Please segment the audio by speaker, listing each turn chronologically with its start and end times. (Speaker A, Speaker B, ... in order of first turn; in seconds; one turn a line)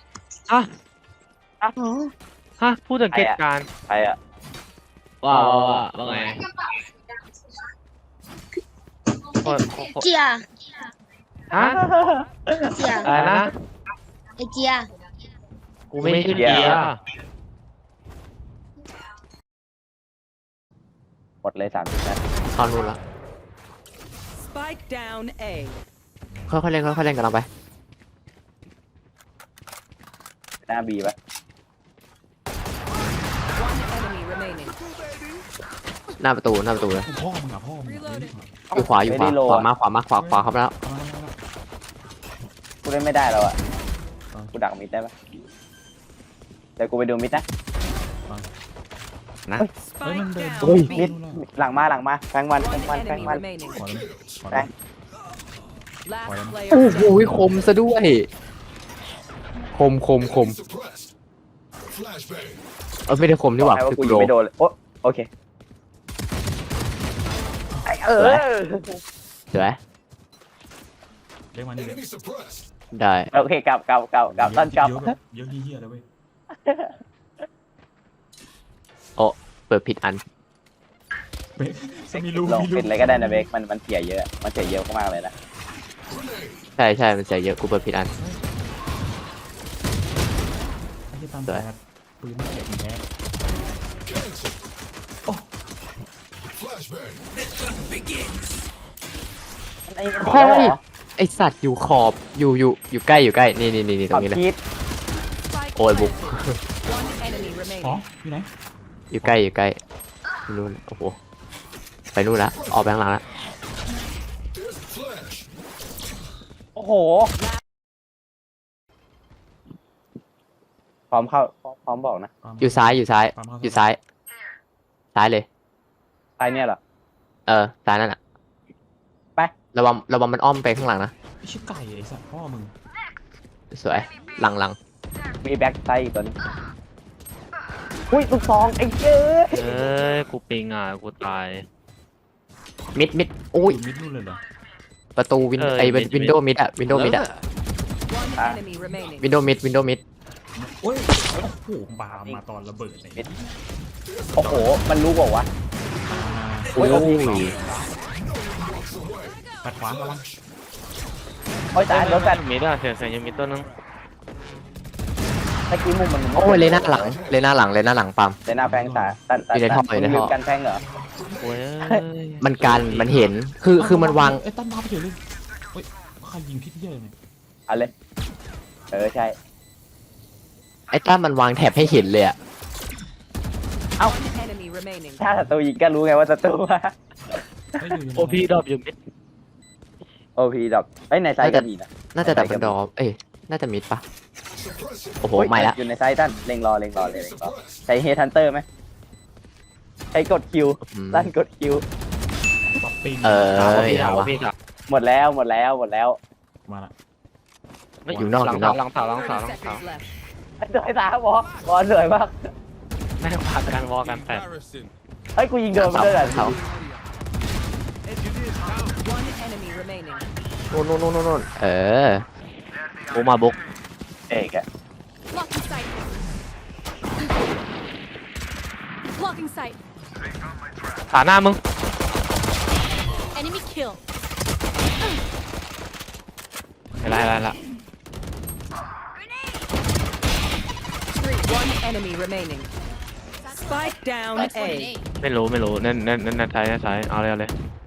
Speaker A: 1.8-2.1
Speaker B: 2.6-3.7
Speaker C: 3.1-4.2
Speaker B: 5.2-6.4
Speaker C: 5.3-5.8
Speaker B: 9.4-10.1
Speaker A: 9.6-10.4
Speaker B: 11.5-11.8
Speaker C: 11.5-12.5
Speaker A: 12.7-13.2
Speaker B: 13.0-13.5
Speaker C: 13.1-13.4
Speaker A: 14.4-14.9
Speaker B: 15.9-17.0
Speaker D: 16.0-16.9
Speaker C: 16.3-16.9
Speaker C: 21.4-22.2
Speaker D: 22.5-23.0
Speaker E: 24.4-25.8
Speaker D: 26.5-27.5
Speaker C: 30.7-31.1
Speaker E: 33.5-34.8
Speaker D: 36.2-37.1
Speaker F: 37.0-38.6
Speaker E: 37.9-38.3
Speaker C: 38.7-39.7
Speaker D: 38.7-40.8
Speaker F: 40.1-41.4
Speaker C: 42.8-43.6
Speaker C: 44.5-45.1
Speaker C: 46.8-47.4
Speaker E: 49.9-51.1
Speaker F: 50.0-51.4
Speaker D: 50.6-50.9
Speaker C: 50.9-53.5
Speaker E: 52.6-53.8
Speaker F: 53.2-54.7
Speaker E: 56.0-57.2
Speaker F: 56.2-57.7
Speaker D: 56.7-58.3
Speaker D: 59.7-60.6
Speaker D: 63.1-64.3
Speaker C: 63.6-65.3
Speaker C: 67.8-69.0
Speaker D: 68.2-68.4
Speaker D: 69.5-69.8
Speaker F: 71.5-72.2
Speaker D: 72.9-73.3
Speaker C: 73.3-75.2
Speaker F: 74.3-76.1
Speaker C: 76.7-77.0
Speaker D: 79.2-80.2
Speaker F: 81.6-83.5
Speaker C: 82.1-85.3
Speaker D: 86.8-88.1
Speaker F: 88.1-88.4
Speaker F: 91.1-93.1
Speaker C: 99.9-100.8
Speaker D: 100.2-104.4
Speaker C: 104.1-104.6
Speaker E: 105.5-106.2
Speaker D: 105.8-106.6
Speaker E: 106.9-108.0
Speaker F: 107.8-108.5
Speaker D: 109.1-109.8
Speaker D: 110.5-111.2
Speaker D: 112.1-113.2
Speaker C: 116.8-117.3
Speaker C: 121.1-122.3
Speaker F: 122.4-123.9
Speaker D: 122.6-124.0
Speaker D: 125.2-125.5
Speaker C: 126.4-126.8
Speaker D: 127.5-128.2
Speaker D: 129.7-131.1
Speaker F: 131.4-132.7
Speaker D: 133.7-134.8
Speaker C: 135.4-136.3
Speaker C: 138.1-139.7
Speaker B: 139.5-141.7
Speaker D: 139.6-139.9
Speaker D: 142.9-143.8
Speaker F: 143.7-144.4
Speaker D: 145.2-147.3
Speaker B: 145.6-146.4
Speaker E: 148.1-149.3
Speaker D: 149.2-150.0
Speaker F: 150.6-153.4
Speaker C: 152.1-152.4
Speaker C: 154.4-155.5
Speaker F: 154.4-154.8
Speaker F: 156.1-157.6
Speaker D: 156.8-157.6
Speaker C: 156.8-157.5
Speaker F: 159.6-160.3
Speaker C: 161.7-162.4
Speaker B: 161.9-163.7
Speaker C: 165.7-167.2
Speaker D: 166.4-168.4
Speaker C: 168.4-170.8
Speaker F: 168.5-169.2
Speaker D: 169.5-170.3
Speaker F: 170.7-171.5
Speaker B: 171.4-173.2
Speaker D: 172.4-174.4
Speaker F: 173.8-175.2
Speaker F: 175.7-177.2
Speaker C: 178.9-179.4
Speaker D: 180.9-182.4
Speaker E: 184.1-185.2
Speaker C: 185.2-187.9
Speaker F: 187.8-188.6
Speaker B: 188.2-188.9
Speaker C: 190.4-192.8
Speaker D: 191.4-194.0
Speaker D: 195.2-195.8
Speaker C: 195.4-198.7
Speaker C: 200.1-201.8
Speaker D: 200.8-201.3
Speaker F: 202.8-204.3
Speaker D: 203.2-204.3
Speaker B: 203.5-204.5
Speaker C: 204.9-206.2
Speaker F: 206.7-206.9
Speaker B: 208.1-209.8
Speaker F: 208.1-208.8
Speaker D: 208.2-208.8
Speaker E: 209.0-210.1
Speaker C: 210.6-212.5
Speaker B: 213.2-214.5
Speaker C: 215.4-216.6
Speaker D: 215.8-216.6
Speaker E: 219.0-220.3
Speaker D: 220.7-222.2
Speaker B: 223.1-223.6
Speaker C: 224.3-224.6
Speaker G: 225.3-226.2
Speaker G: 229.2-229.8
Speaker B: 231.1-231.6
Speaker G: 233.3-234.0
Speaker B: 237.0-237.6
Speaker E: 241.2-242.7
Speaker E: 243.6-244.9
Speaker G: 244.4-245.0
Speaker B: 245.2-247.5